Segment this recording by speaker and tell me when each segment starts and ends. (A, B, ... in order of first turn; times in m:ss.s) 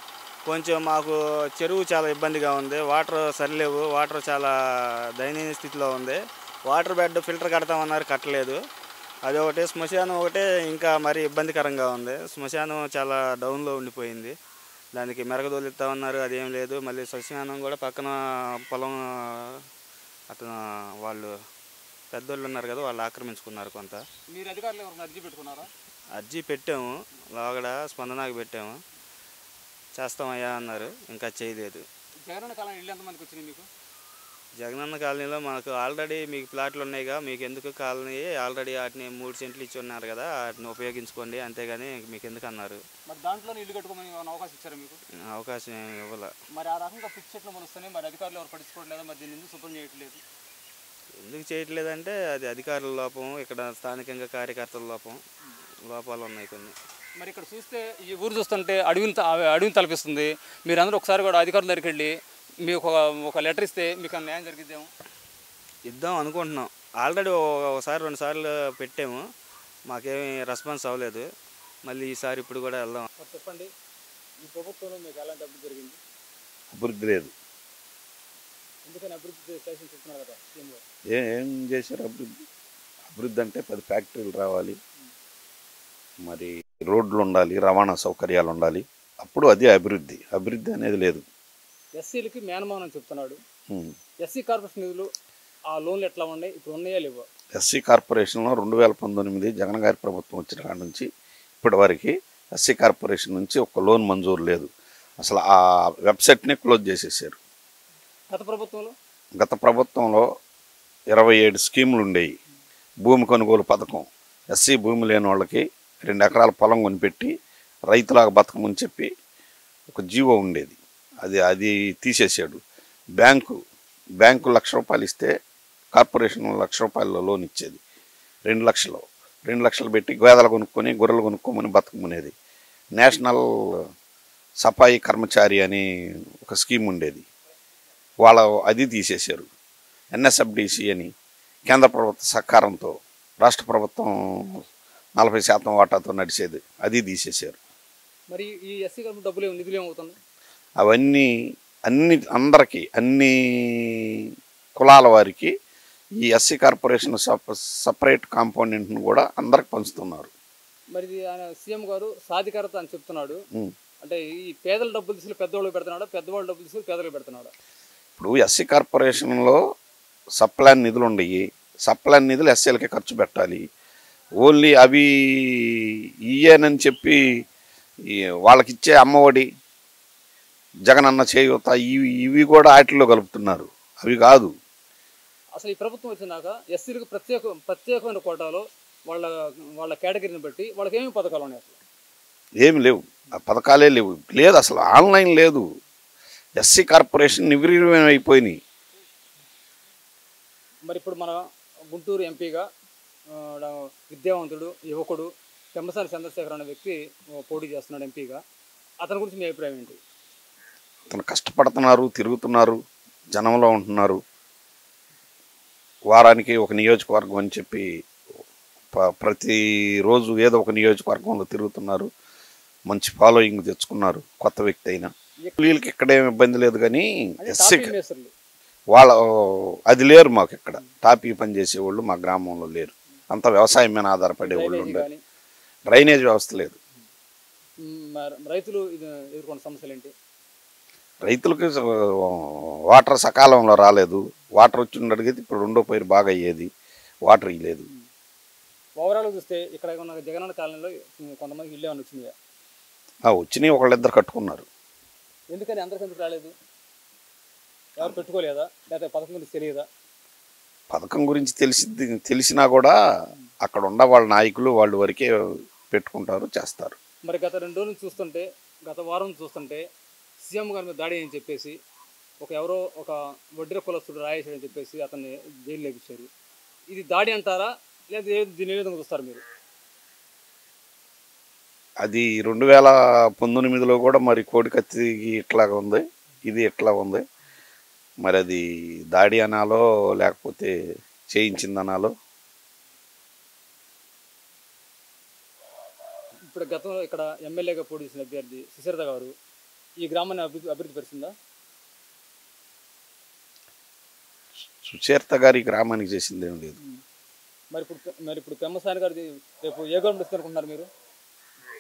0:00.5-0:04.5 A
0:05.2-0:08.6 A
0:09.3-0:14.3 A
0:15.0-0:19.6 A
0:20.3-0:21.3 A
0:22.1-0:24.0 A
0:24.3-0:25.7 B
0:26.1-0:28.8 A
0:30.0-0:31.8 A
0:32.3-0:33.7 B
0:34.6-0:42.8 A
0:43.1-0:45.0 B
0:45.3-0:46.3 A
0:46.5-0:50.2 B
0:51.2-0:55.2 A
0:55.9-0:56.8 A
0:57.2-1:04.9 B
1:05.9-1:09.2 A
1:09.9-1:11.3 A
1:11.8-1:13.1 A
1:13.2-1:13.7 B
1:14.4-1:16.0 B
1:16.7-1:17.3 C
1:18.8-1:20.8 B
1:21.1-1:22.4 C
1:23.1-1:24.8 C
1:26.2-1:31.2 C
1:32.0-1:33.4 B
1:33.7-1:34.0 C
1:34.2-1:35.1 B
1:35.7-1:37.3 B
1:37.6-1:41.1 C
1:41.6-1:44.7 C
1:45.2-1:47.4 C
1:48.3-1:49.0 B
1:49.4-1:50.3 C
1:51.1-1:52.3 C
1:53.0-1:57.3 C
1:57.9-1:59.1 C
1:59.9-2:02.6 C
2:03.2-2:03.6 C
2:04.2-2:05.3 C
2:05.9-2:07.8 C
2:08.5-2:12.3 C
2:13.0-2:13.9 C
2:14.6-2:15.8 C
2:16.4-2:17.3 C
2:18.2-2:19.5 C
2:20.1-2:21.1 C
2:21.7-2:24.6 C
2:25.2-2:27.6 C
2:28.3-2:30.2 B
2:30.8-2:31.3 C
2:31.9-2:35.5 C
2:36.2-2:40.3 C
2:40.9-2:43.4 B
2:44.0-2:47.5 B
2:48.2-2:49.6 C
2:50.4-2:53.6 C
2:54.4-2:57.2 C
2:58.1-2:59.5 C
3:00.9-3:04.5 C
3:05.6-3:11.8 B
3:12.6-3:15.7 C
3:16.6-3:18.6 C
3:20.8-3:22.7 B
3:23.3-3:28.4 B
3:29.0-3:30.0 B
3:31.1-3:32.8 C
3:33.3-3:34.2 C
3:36.1-3:37.9 C
3:38.9-3:42.1 C
3:42.9-3:47.9 C
3:47.4-3:48.3 B
3:48.9-3:55.1 C
3:54.4-3:55.2 B
3:55.9-3:56.8 C
3:57.8-4:00.1 B
4:01.2-4:06.7 C
4:07.2-4:07.9 C
4:09.0-4:12.3 B
4:13.3-4:14.7 C
4:15.5-4:16.5 B
4:18.0-4:19.9 B
4:20.9-4:22.9 C
4:23.6-4:27.0 C
4:27.2-4:29.8 B
4:30.4-4:31.8 B
4:32.4-4:36.3 B
4:36.9-4:39.4 B
4:42.0-4:47.2 C
4:48.2-4:50.7 C
4:51.3-4:52.1 C
4:56.5-4:59.3 B
5:00.0-5:01.3 B
5:04.8-5:06.8 C
5:07.7-5:10.9 B